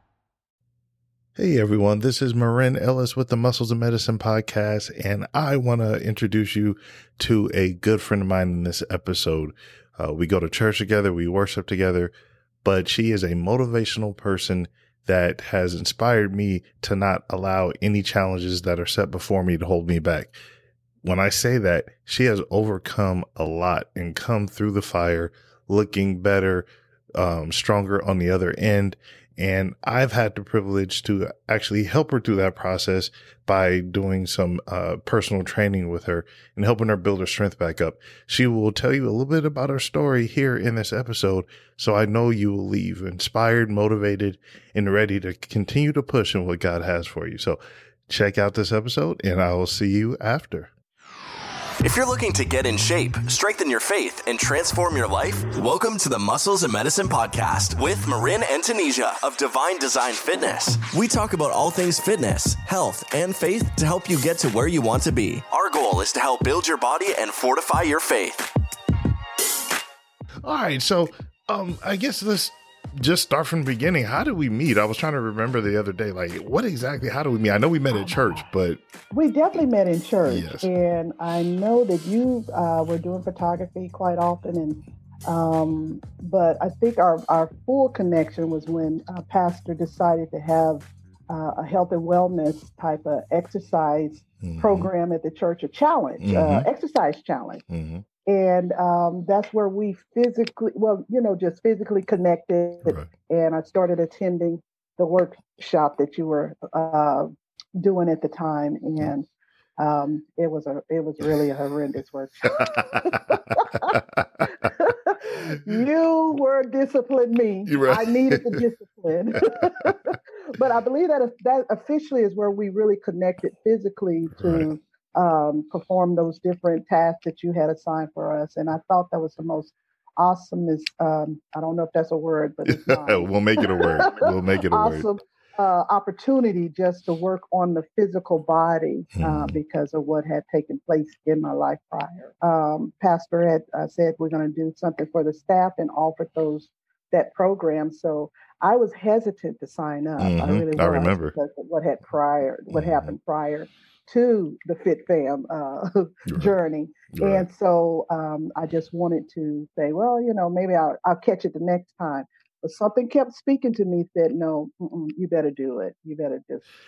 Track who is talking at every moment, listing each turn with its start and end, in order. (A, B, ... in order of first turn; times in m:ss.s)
0:01.4-0:12.1 A
0:12.6-0:20.3 A
0:21.0-0:50.7 A
0:51.8-1:08.4 B
1:10.4-1:18.8 A
1:17.9-1:18.5 C
1:19.1-1:37.6 C
1:20.2-1:20.7 A
1:34.4-1:34.9 A
1:36.2-1:36.7 A
1:37.7-1:38.0 A
1:38.2-1:49.3 C
1:49.8-2:46.6 C
1:52.6-1:53.2 A
1:53.9-1:54.2 A
1:57.7-1:58.6 A
1:59.8-2:00.1 A
2:04.3-2:04.7 A
2:12.7-2:15.1 A
2:19.2-2:19.6 A
2:30.2-2:31.3 A
2:32.7-2:33.1 A
2:36.3-2:36.5 A
2:37.1-2:37.4 A